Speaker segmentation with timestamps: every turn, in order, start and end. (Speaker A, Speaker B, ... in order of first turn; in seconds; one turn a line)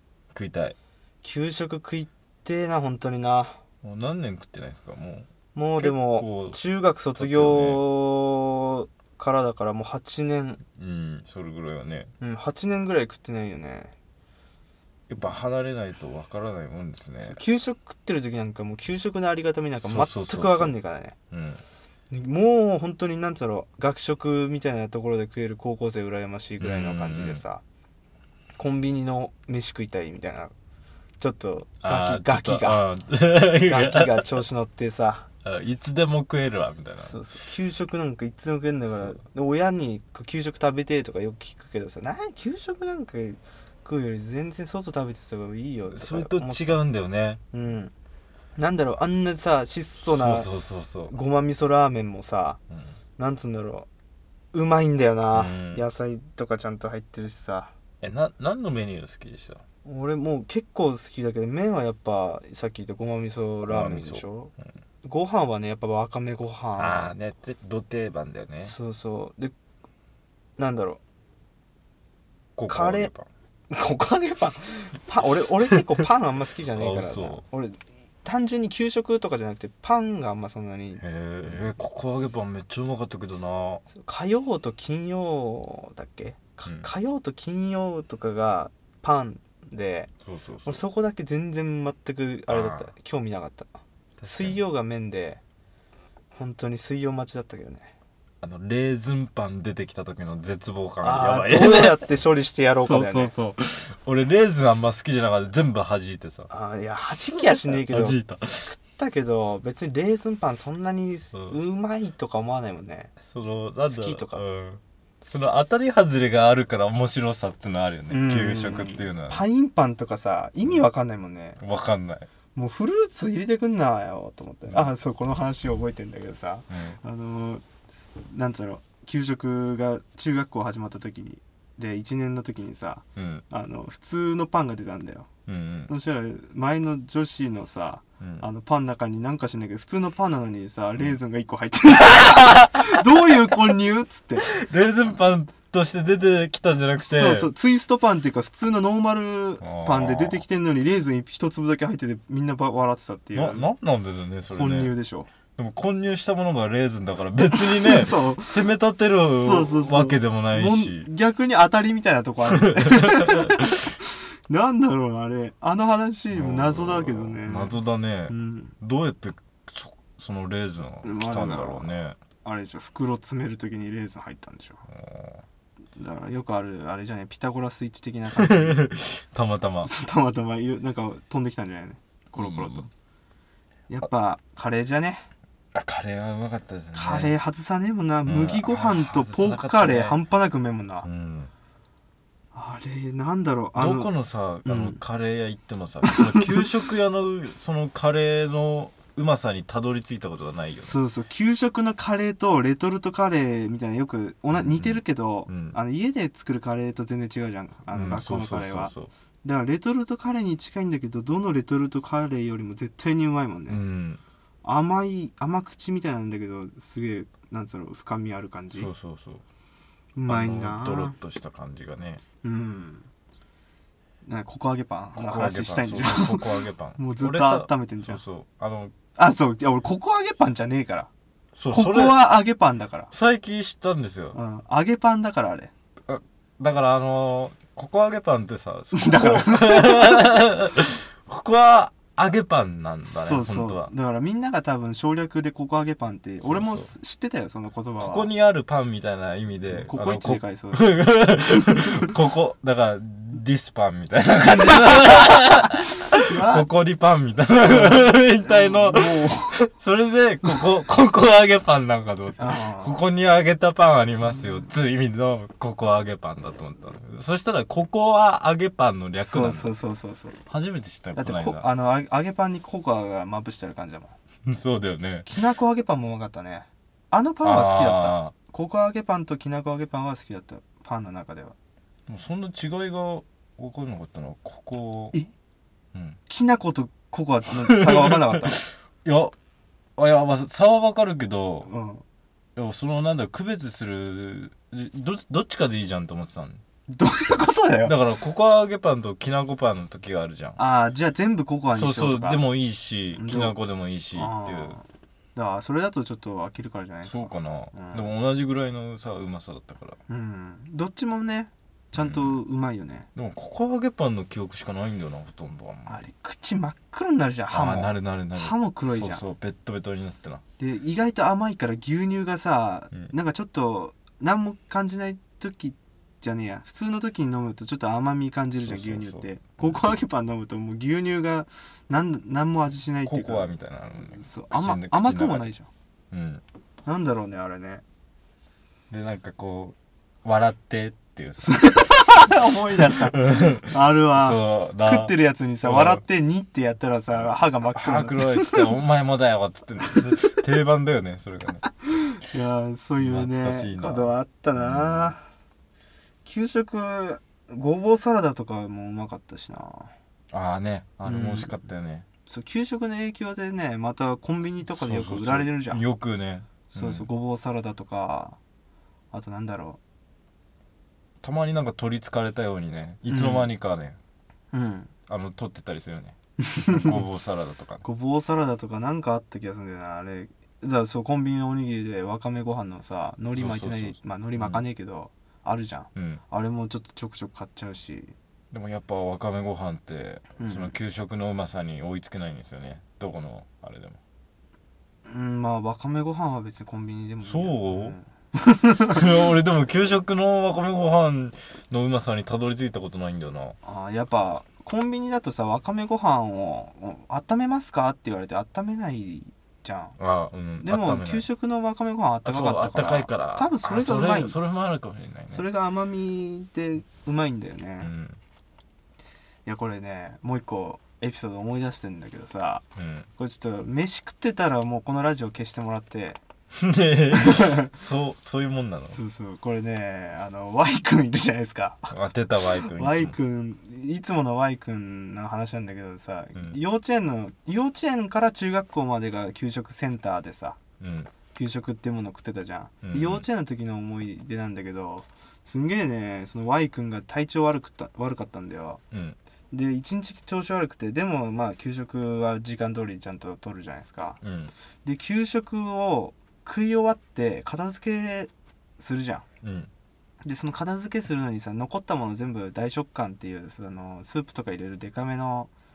Speaker A: 0.3-0.8
Speaker B: 1.2-3.6
Speaker A: 3.8-6.6
Speaker B: 5.5-10.6
Speaker A: 7.2-7.8
Speaker A: 10.8-12.1
Speaker B: 12.2-13.9
Speaker A: 15.1-17.4
Speaker B: 17.2-21.1
Speaker A: 19.8-20.7
Speaker A: 21.3-21.6
Speaker B: 22.1-27.6
Speaker A: 26.6-27.4
Speaker B: 28.6-30.5
Speaker B: 31.2-32.8
Speaker A: 31.8-34.3
Speaker B: 33.6-35.3
Speaker A: 35.4-37.2
Speaker B: 37.0-46.8
Speaker A: 45.9-47.4
Speaker B: 47.5-47.9
Speaker B: 48.6-50.5
Speaker A: 50.0-51.1
Speaker B: 51.1-52.6
Speaker B: 53.2-53.9
Speaker B: 54.5-57.7
Speaker A: 55.3-55.8
Speaker A: 58.0-59.6
Speaker B: 59.8-67.1
Speaker A: 63.6-64.2
Speaker A: 66.8-68.7
Speaker B: 68.6-69.5
Speaker B: 70.6-71.0
Speaker A: 72.6-73.2
Speaker B: 72.7-73.1
Speaker B: 73.7-81.6
Speaker A: 76.7-77.4
Speaker A: 81.0-83.8
Speaker B: 83.9-90.1
Speaker A: 86.6-86.9
Speaker A: 90.2-90.8
Speaker B: 90.7-95.4
Speaker A: 92.5-92.9
Speaker A: 94.2-94.6
Speaker B: 96.3-97.9
Speaker A: 98.4-102.0
Speaker B: 101.0-103.3
Speaker A: 102.8-106.5
Speaker B: 106.5-113.1
Speaker A: 107.4-108.7
Speaker A: 111.3-111.6
Speaker A: 113.2-119.4
Speaker B: 113.9-114.4
Speaker B: 118.1-121.6
Speaker A: 121.6-122.3
Speaker B: 122.5-127.6
Speaker A: 126.7-127.0
Speaker B: 128.2-135.3
Speaker A: 133.2-133.4
Speaker A: 135.5-135.9
Speaker B: 135.9-144.5
Speaker A: 138.2-138.4
Speaker A: 142.2-143.3
Speaker A: 144.4-147.5
Speaker B: 147.0-153.7
Speaker A: 149.6-150.4
Speaker A: 153.3-154.9
Speaker B: 154.5-155.3
Speaker A: 155.6-161.1
Speaker B: 157.5-167.8
Speaker A: 162.5-163.6
Speaker A: 166.3-172.2
Speaker B: 168.3-168.7
Speaker B: 171.0-174.8
Speaker A: 174.9-175.4
Speaker B: 176.0-179.0
Speaker A: 178.3-179.9
Speaker B: 179.8-182.9
Speaker A: 182.4-182.9
Speaker B: 183.9-185.3
Speaker A: 185.7-187.3
Speaker B: 186.9-191.1
Speaker A: 188.2-190.2
Speaker A: 191.0-191.5
Speaker B: 192.5-194.1
Speaker A: 193.8-201.0
Speaker B: 194.6-195.0
Speaker B: 196.1-196.6
Speaker B: 200.7-213.8
Speaker A: 204.5-205.8
Speaker A: 207.9-209.1
Speaker A: 213.7-214.2
Speaker B: 214.6-218.9
Speaker A: 218.7-219.4
Speaker B: 220.2-221.2
Speaker A: 220.3-222.2
Speaker B: 222.4-223.1
Speaker B: 224.2-228.2
Speaker A: 225.1-228.9
Speaker B: 229.2-231.1
Speaker A: 231.6-232.2
Speaker B: 231.7-233.1
Speaker A: 233.1-234.4
Speaker B: 234.3-235.7
Speaker A: 236.1-243.9
Speaker B: 238.9-240.4
Speaker B: 243.0-248.3
Speaker A: 246.4-246.9
Speaker A: 248.0-269.7
Speaker B: 249.7-252.1
Speaker B: 256.2-256.7
Speaker B: 257.7-259.6
Speaker B: 262.4-262.9
Speaker B: 269.2-270.4
Speaker A: 270.5-271.6
Speaker B: 271.1-274.1
Speaker A: 274.5-275.3
Speaker B: 275.3-281.5
Speaker A: 277.4-278.3
Speaker A: 282.1-285.1
Speaker A: 285.9-286.2
Speaker B: 286.3-288.6
Speaker A: 287.7-289.3
Speaker A: 290.0-291.7
Speaker B: 291.6-292.0
Speaker A: 292.6-296.6
Speaker B: 296.9-297.9
Speaker A: 297.8-300.6
Speaker B: 300.6-302.4
Speaker A: 301.7-304.8
Speaker B: 303.1-303.6
Speaker B: 304.1-304.8
Speaker B: 305.3-308.1
Speaker A: 307.0-310.0
Speaker B: 310.1-313.1
Speaker A: 311.9-312.4
Speaker A: 313.1-315.9
Speaker B: 315.9-319.2
Speaker A: 317.5-320.4
Speaker B: 320.6-335.7
Speaker A: 328.6-329.9
Speaker A: 333.1-335.5
Speaker A: 336.1-336.4
Speaker B: 336.9-337.8
Speaker A: 338.9-341.6
Speaker B: 341.4-348.7
Speaker A: 342.2-346.0
Speaker A: 347.1-351.7
Speaker B: 352.1-355.2
Speaker A: 353.0-355.1
Speaker B: 356.2-359.9
Speaker A: 360.3-362.1
Speaker B: 361.0-361.5
Speaker B: 362.2-365.8
Speaker A: 364.7-367.1
Speaker B: 366.7-368.4
Speaker B: 369.1-369.8
Speaker A: 371.2-374.0
Speaker B: 373.1-373.5
Speaker B: 374.5-374.9
Speaker A: 375.1-376.1
Speaker B: 376.4-377.0
Speaker A: 376.7-377.8
Speaker B: 377.8-388.1
Speaker A: 383.3-384.6
Speaker A: 385.9-386.2
Speaker A: 388.5-394.0
Speaker B: 390.4-390.8
Speaker B: 395.1-399.1
Speaker A: 397.2-398.0
Speaker A: 398.8-403.6
Speaker B: 403.6-410.0
Speaker A: 410.0-411.2
Speaker B: 410.6-414.4
Speaker A: 412.2-415.4
Speaker B: 415.3-417.9
Speaker A: 417.8-418.2
Speaker B: 419.4-422.6
Speaker A: 422.8-423.1
Speaker B: 423.2-426.2
Speaker A: 426.5-429.0
Speaker B: 427.2-427.7
Speaker B: 428.8-431.9
Speaker A: 431.9-433.2
Speaker B: 432.5-440.6
Speaker A: 440.8-441.1
Speaker B: 441.3-448.8
Speaker A: 442.8-443.2
Speaker A: 448.9-449.2
Speaker B: 449.5-454.2
Speaker A: 454.2-454.5
Speaker B: 454.8-459.2
Speaker A: 459.4-459.7
Speaker B: 460.2-465.5